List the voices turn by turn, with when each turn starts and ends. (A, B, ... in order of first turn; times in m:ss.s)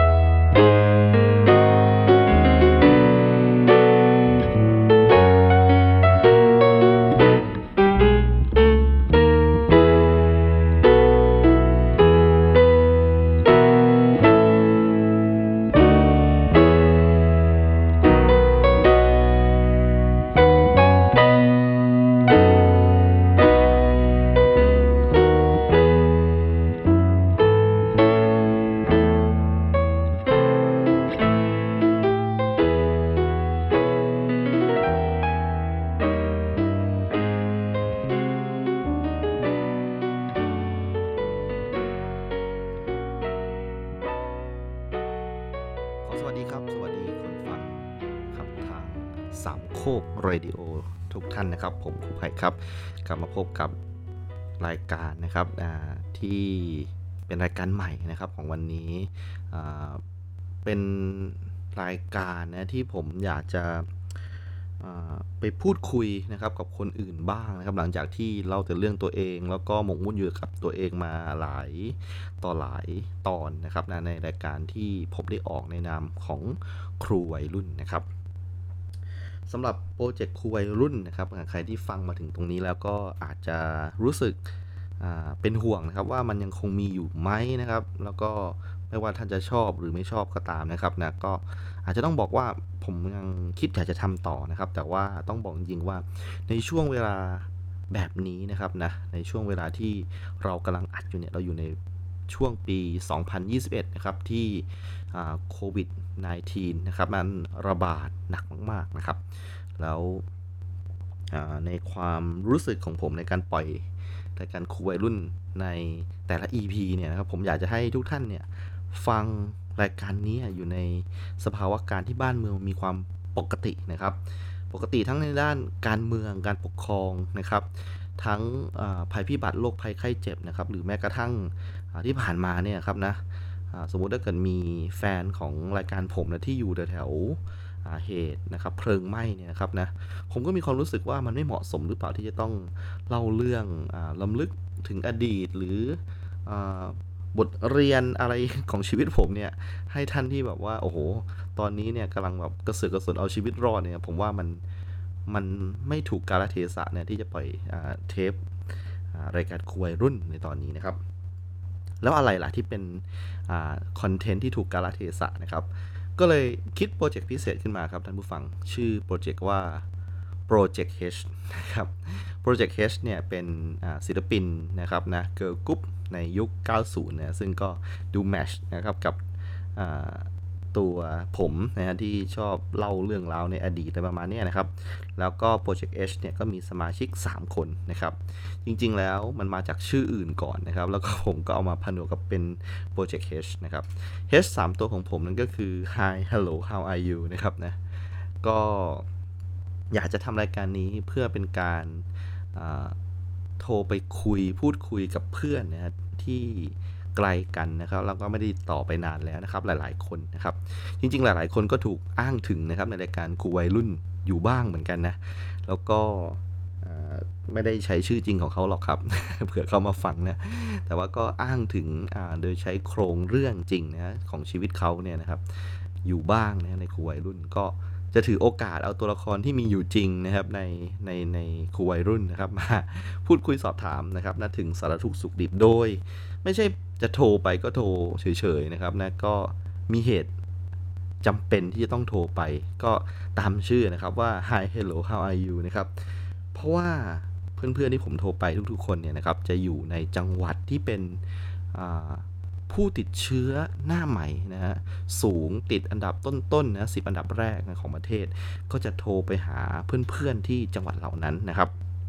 0:46.0-0:53.8 A
0:54.6-1:00.0 A
1:00.6-1:03.9 A
1:04.8-1:18.0 A
1:19.5-1:24.4 A
1:25.0-1:41.8 A
1:42.3-1:49.2 A
1:49.8-1:50.2 A
1:51.3-2:04.2 A
2:04.7-2:13.2 A
2:13.7-2:34.6 A
2:35.3-2:38.5 A
2:39.1-2:41.0 A
2:42.0-2:49.8 A
2:50.5-2:59.2 A
2:59.8-3:17.8 A
3:18.4-3:19.1 A
3:19.9-3:23.0 A
3:23.6-3:45.4 A
3:46.0-4:00.3 A
4:01.2-4:11.2 A
4:11.7-4:21.7 A